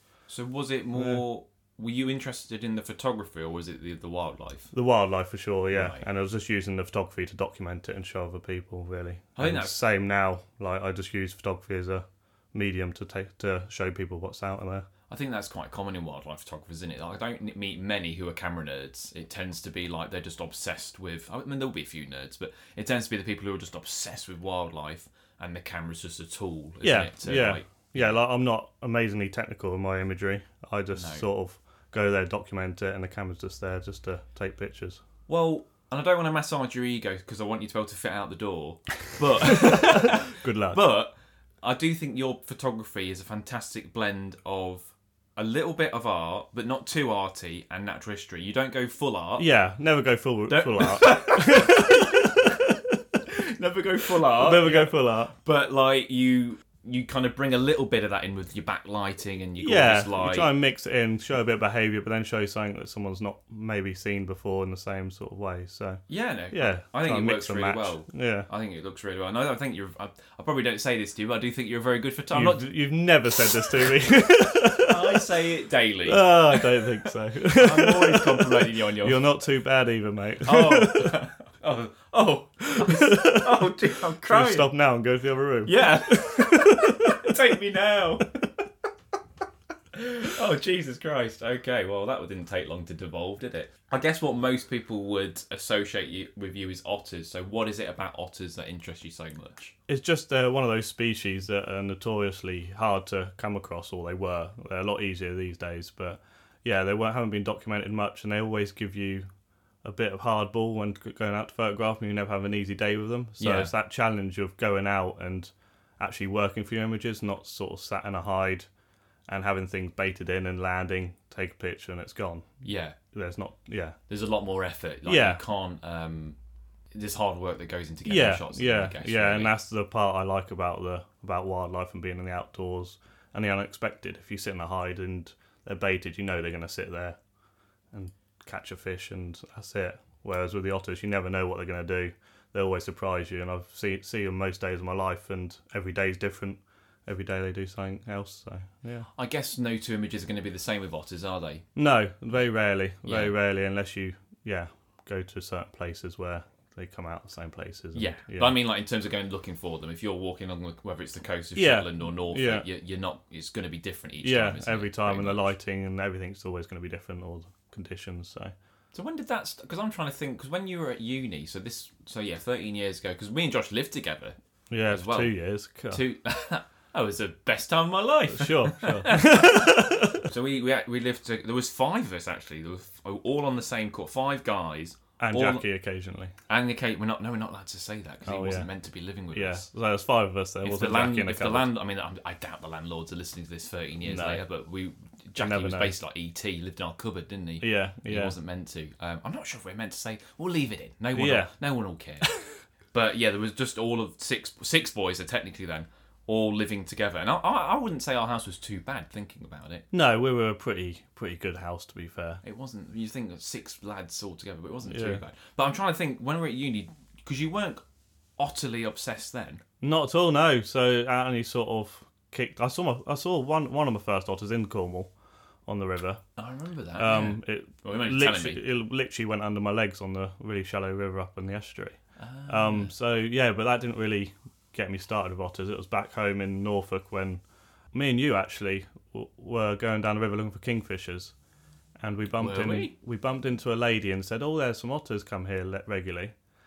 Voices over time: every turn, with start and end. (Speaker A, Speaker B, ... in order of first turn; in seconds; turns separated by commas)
Speaker A: 0.3-4.7, Speaker B: 1.0-1.2, Speaker B: 4.7-14.9, Speaker A: 5.7-6.1, Speaker A: 9.4-9.8, Speaker A: 15.1-28.2, Speaker B: 26.8-35.0, Speaker A: 30.9-31.3, Speaker A: 35.3-49.5, Speaker B: 39.5-40.8, Speaker B: 49.4-53.2, Speaker A: 50.5-52.6, Speaker A: 53.3-60.5, Speaker B: 54.2-55.4, Speaker B: 59.6-68.5, Speaker A: 66.1-72.7, Speaker B: 72.3-75.3, Speaker A: 74.7-76.9, Speaker B: 76.0-81.2, Speaker A: 77.5-79.2, Speaker A: 80.4-84.7, Speaker B: 82.8-83.8, Speaker B: 84.3-87.3, Speaker A: 85.7-88.4, Speaker A: 89.9-99.8, Speaker B: 99.9-109.3, Speaker B: 109.8-118.7, Speaker A: 113.4-113.7, Speaker B: 119.3-124.0, Speaker A: 122.6-123.0, Speaker A: 124.1-126.4, Speaker B: 125.1-125.4, Speaker A: 126.9-129.5, Speaker B: 128.1-137.2, Speaker B: 137.9-149.1, Speaker A: 149.1-151.7, Speaker B: 151.8-158.6, Speaker A: 153.1-153.3, Speaker A: 157.9-165.5, Speaker B: 161.6-162.7, Speaker B: 164.2-168.5, Speaker A: 168.9-174.4, Speaker B: 174.7-176.0, Speaker A: 174.9-175.3, Speaker A: 175.9-185.6, Speaker B: 178.3-180.3, Speaker B: 185.2-186.3, Speaker A: 186.5-189.7, Speaker B: 188.2-188.7, Speaker B: 189.3-191.7, Speaker A: 190.6-202.3, Speaker B: 194.0-194.4, Speaker B: 195.4-195.9, Speaker B: 197.6-198.3, Speaker B: 201.2-201.5, Speaker A: 202.9-209.9, Speaker B: 209.9-212.4, Speaker A: 212.4-217.8, Speaker B: 214.9-215.2, Speaker A: 218.4-219.6, Speaker B: 219.8-225.1, Speaker B: 225.7-226.2, Speaker A: 226.4-228.6, Speaker B: 227.0-237.4, Speaker A: 232.2-232.9, Speaker B: 237.9-241.3, Speaker B: 242.0-246.3, Speaker A: 242.3-242.9